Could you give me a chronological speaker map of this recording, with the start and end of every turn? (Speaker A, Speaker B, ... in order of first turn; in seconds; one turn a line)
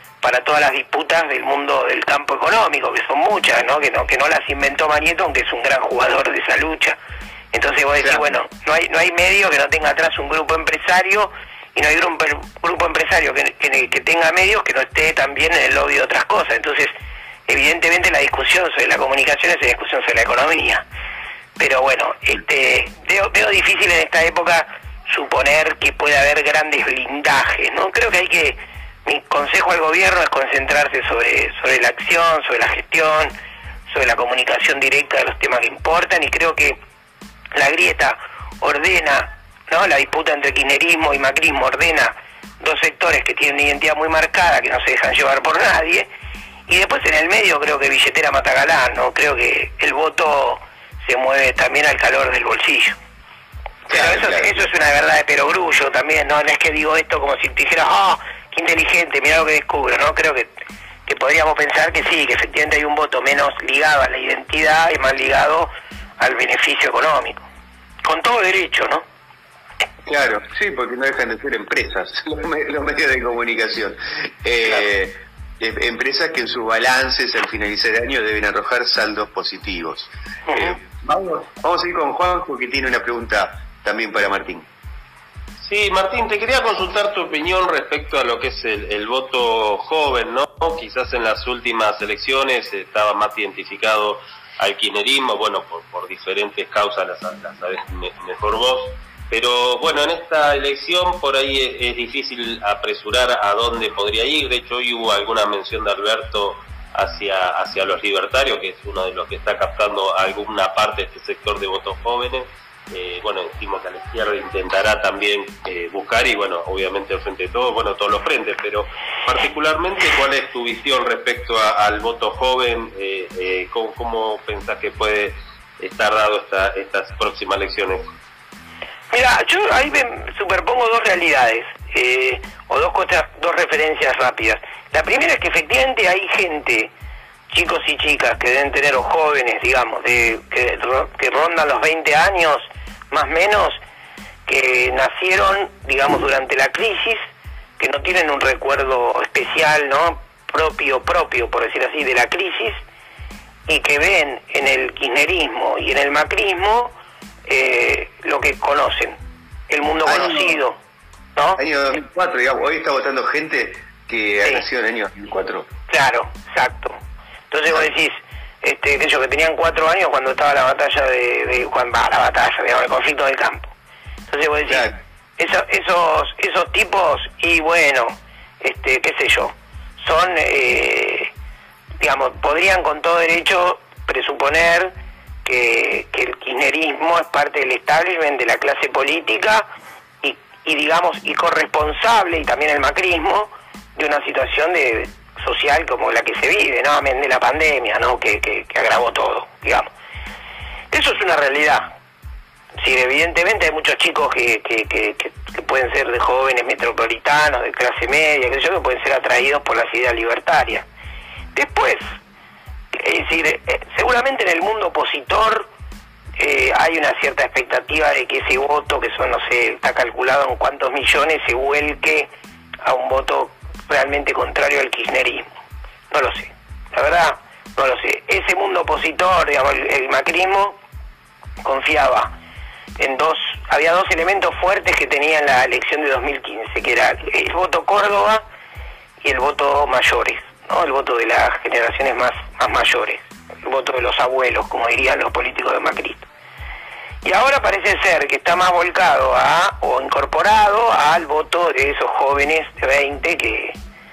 Speaker A: 0.2-7.0
Speaker A: 7.5-16.9
Speaker B: 8.0-8.3
Speaker A: 17.5-20.8
Speaker A: 21.6-33.3
Speaker A: 33.9-36.8
Speaker A: 37.5-46.1
Speaker A: 46.7-53.0
Speaker B: 53.9-54.7
Speaker A: 53.9-60.5
Speaker A: 61.1-67.4
Speaker A: 68.0-69.0
Speaker B: 70.1-84.7
Speaker A: 80.5-80.8
Speaker C: 85.6-128.1
Speaker A: 129.1-136.9
Speaker A: 137.5-143.8
Speaker A: 144.5-147.2
Speaker A: 147.8-152.8
Speaker A: 153.7-156.9
Speaker A: 157.5-159.2
Speaker A: 159.7-160.8
Speaker B: 160.1-160.6
Speaker A: 161.4-161.6
Speaker B: 161.6-165.7
Speaker A: 165.9-167.0
Speaker A: 167.5-173.7
Speaker A: 174.3-181.3
Speaker B: 174.7-175.0
Speaker A: 182.0-184.9
Speaker A: 185.4-189.7
Speaker A: 190.2-199.9
Speaker A: 200.9-201.9
Speaker A: 202.8-210.9
Speaker A: 211.6-212.0
Speaker A: 212.9-215.7
Speaker A: 216.4-222.3
Speaker A: 222.8-225.5
Speaker A: 226.1-230.8
Speaker A: 231.6-232.3
Speaker A: 233.0-238.4
Speaker A: 239.2-246.3
Speaker A: 247.2-253.8